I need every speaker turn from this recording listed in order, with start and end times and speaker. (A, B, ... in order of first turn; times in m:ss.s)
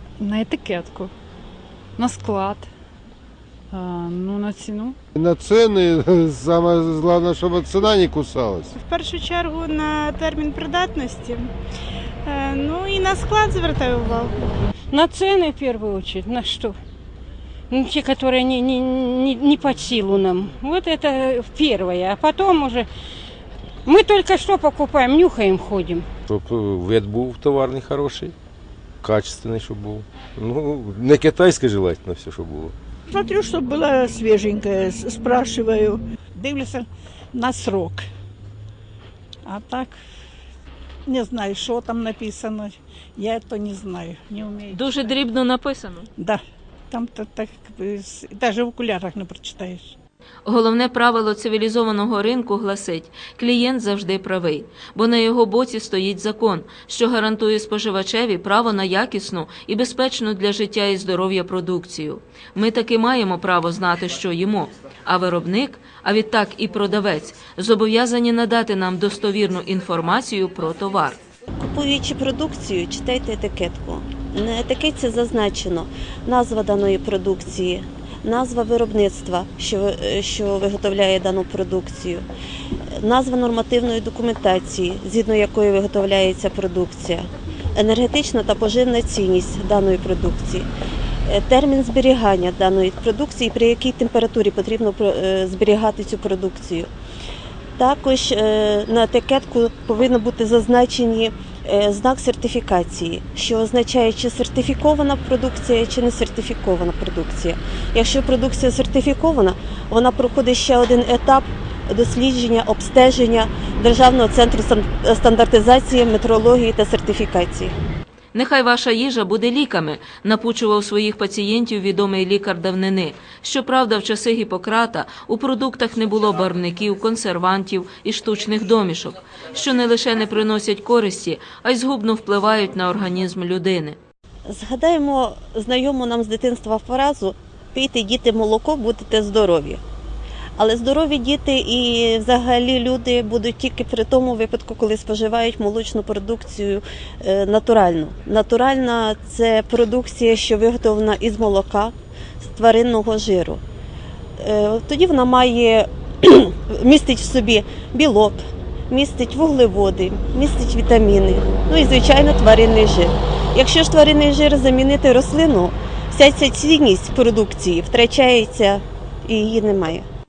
0:00.2-0:01.1 A
0:02.0-0:02.7 A
0:03.7-0:05.0 A
0:05.2-0:08.7 B
0:08.8-0:11.5 C
0:12.2-0:14.6 C
0:14.9-0:16.8 D
0:17.7-0:22.9 D
0:23.8-0:26.1 D
0:26.3-0:28.3 E
0:29.0-0:32.8 E
0:33.1-0:38.0 F
0:39.4-0:40.0 F
0:41.1-0:45.0 F
0:44.7-0:46.1 G
0:46.9-0:49.9 F
0:50.4-1:11.2 G
1:11.6-1:22.2 H
1:23.0-1:30.7 H
1:31.2-1:36.9 H
1:37.8-1:57.8 H
1:58.3-2:14.0 G
2:14.5-2:19.8 H
2:20.6-2:33.6 H
2:34.4-2:50.1 H